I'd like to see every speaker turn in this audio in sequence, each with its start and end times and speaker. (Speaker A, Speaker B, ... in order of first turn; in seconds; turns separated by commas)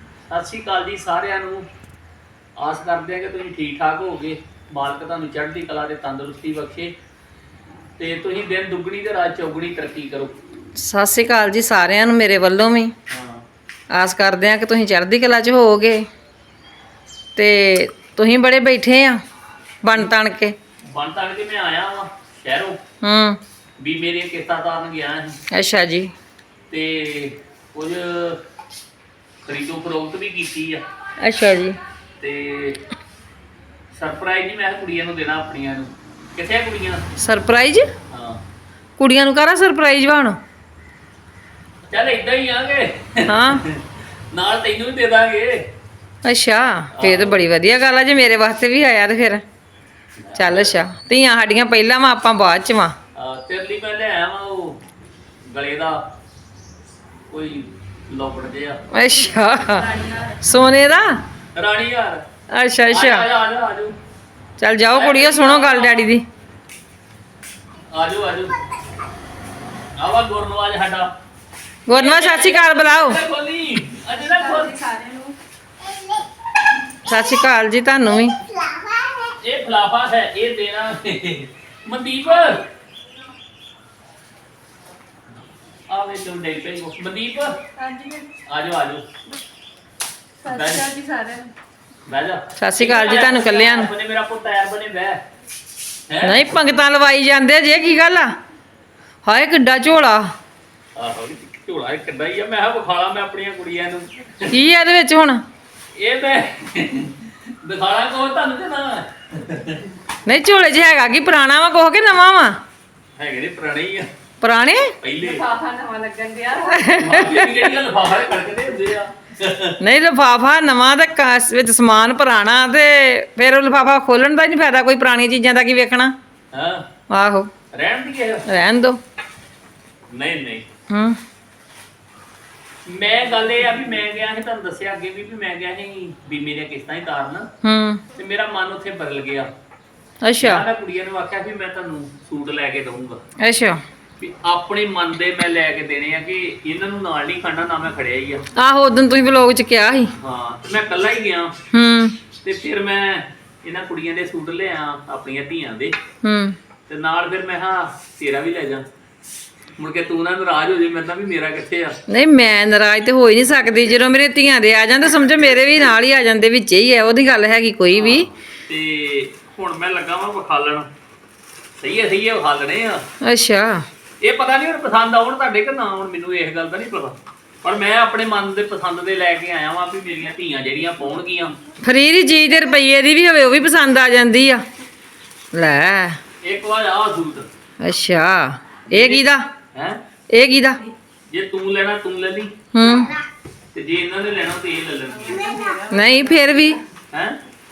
Speaker A: 0.3-1.7, Speaker A: 2.6-6.9, Speaker A: 8.0-10.3, Speaker B: 10.8-12.9, Speaker A: 13.1-13.4, Speaker B: 13.9-16.0, Speaker B: 17.4-19.2, Speaker B: 19.8-20.5, Speaker A: 20.9-22.8, Speaker B: 23.0-23.4, Speaker A: 23.8-25.4, Speaker B: 25.5-26.1, Speaker A: 26.7-28.4, Speaker A: 29.4-30.8, Speaker B: 31.2-31.8, Speaker A: 32.2-32.8, Speaker A: 33.9-37.0, Speaker B: 37.2-37.9, Speaker A: 38.1-38.4, Speaker B: 39.0-40.4, Speaker A: 41.9-45.6, Speaker B: 43.2-43.6, Speaker B: 46.2-49.4, Speaker A: 46.9-47.4, Speaker A: 50.2-50.8, Speaker B: 50.4-52.9, Speaker A: 53.1-54.8, Speaker A: 55.5-56.0, Speaker A: 57.3-58.8, Speaker B: 58.9-59.9, Speaker C: 59.6-60.4, Speaker B: 60.4-61.2, Speaker A: 61.5-62.2, Speaker B: 62.5-63.3, Speaker A: 62.9-64.0, Speaker B: 64.6-66.2, Speaker A: 64.9-66.1, Speaker A: 67.9-68.6, Speaker A: 70.0-71.1, Speaker B: 71.9-73.2, Speaker A: 71.9-74.7, Speaker C: 74.2-75.3, Speaker B: 77.0-78.3, Speaker A: 79.4-82.6, Speaker A: 85.9-87.6, Speaker C: 87.8-88.3, Speaker A: 88.5-89.0, Speaker C: 90.4-91.5, Speaker A: 90.4-90.9, Speaker A: 92.1-95.2, Speaker B: 92.6-93.9, Speaker A: 96.1-96.4, Speaker B: 96.2-98.3, Speaker B: 99.2-100.3, Speaker A: 101.0-104.5, Speaker B: 104.5-105.4, Speaker A: 105.9-109.8, Speaker B: 110.2-112.6, Speaker A: 113.2-114.1, Speaker B: 114.4-114.9, Speaker A: 115.0-115.4, Speaker C: 115.2-117.1, Speaker B: 116.7-117.5, Speaker A: 116.9-119.8, Speaker B: 119.8-126.1, Speaker A: 126.5-126.8, Speaker B: 127.1-127.5, Speaker A: 127.7-128.4, Speaker B: 128.5-129.0, Speaker A: 130.1-130.7, Speaker B: 130.9-131.2, Speaker A: 132.8-137.5, Speaker B: 137.6-138.0, Speaker A: 138.1-139.5, Speaker B: 140.2-140.6, Speaker A: 140.4-143.2, Speaker B: 143.4-143.8, Speaker A: 144.2-148.4, Speaker B: 148.6-150.1, Speaker A: 150.2-151.5, Speaker B: 151.7-152.1, Speaker A: 152.4-155.9, Speaker B: 156.2-156.6, Speaker A: 156.9-158.8, Speaker A: 159.8-162.0, Speaker B: 162.1-168.3, Speaker A: 167.9-170.9, Speaker A: 171.8-173.0, Speaker B: 173.2-173.8, Speaker A: 174.2-181.6, Speaker B: 181.8-184.6, Speaker B: 185.5-186.2, Speaker A: 186.4-187.5, Speaker B: 187.8-189.5, Speaker A: 188.9-190.0, Speaker B: 190.3-190.8, Speaker A: 191.3-192.5, Speaker B: 192.7-193.1, Speaker A: 193.7-195.5, Speaker C: 195.1-196.8, Speaker B: 195.9-196.8, Speaker A: 197.1-197.4